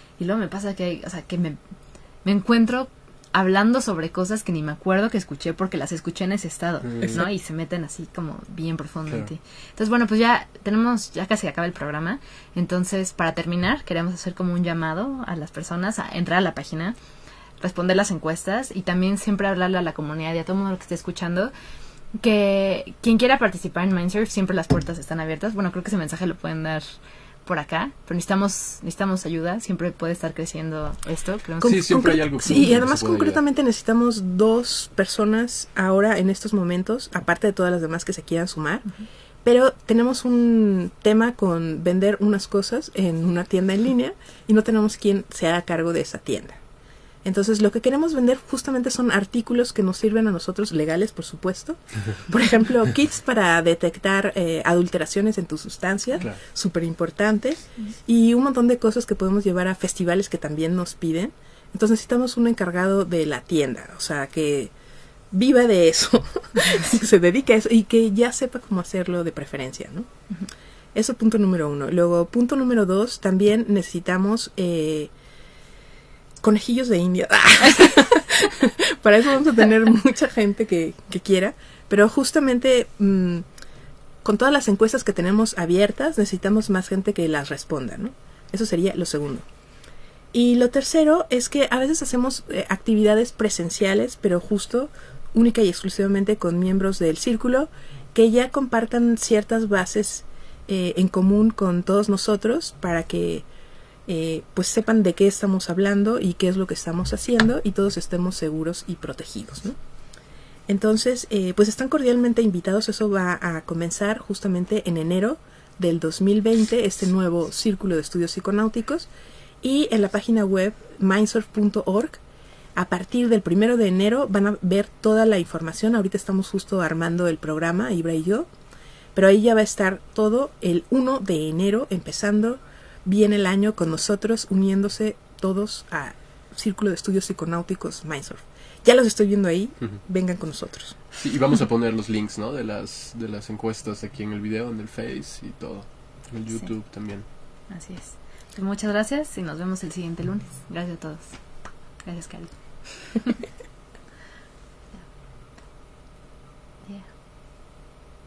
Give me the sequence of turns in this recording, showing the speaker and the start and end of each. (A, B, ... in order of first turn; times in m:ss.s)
0:00.2-0:01.6 A
0:02.2-0:17.0 A
0:06.8-0:07.2 B
0:17.6-0:21.5 A
0:22.2-0:26.9 A
0:27.5-0:32.1 A
0:31.6-0:33.4 B
0:31.6-0:38.9 C
0:39.4-0:46.6 C
0:47.2-1:04.7 C
1:05.3-1:10.1 C
1:11.0-1:15.1 C
1:16.4-1:23.4 C
1:24.2-1:29.5 C
1:30.3-1:43.5 C
1:44.1-1:49.8 C
1:50.7-1:59.1 C
1:59.6-2:02.2 C
2:02.8-2:08.5 C
2:09.2-2:21.0 C
2:21.2-2:27.2 B
2:27.7-2:31.4 A
2:32.0-2:32.6 A
2:33.1-2:33.4 A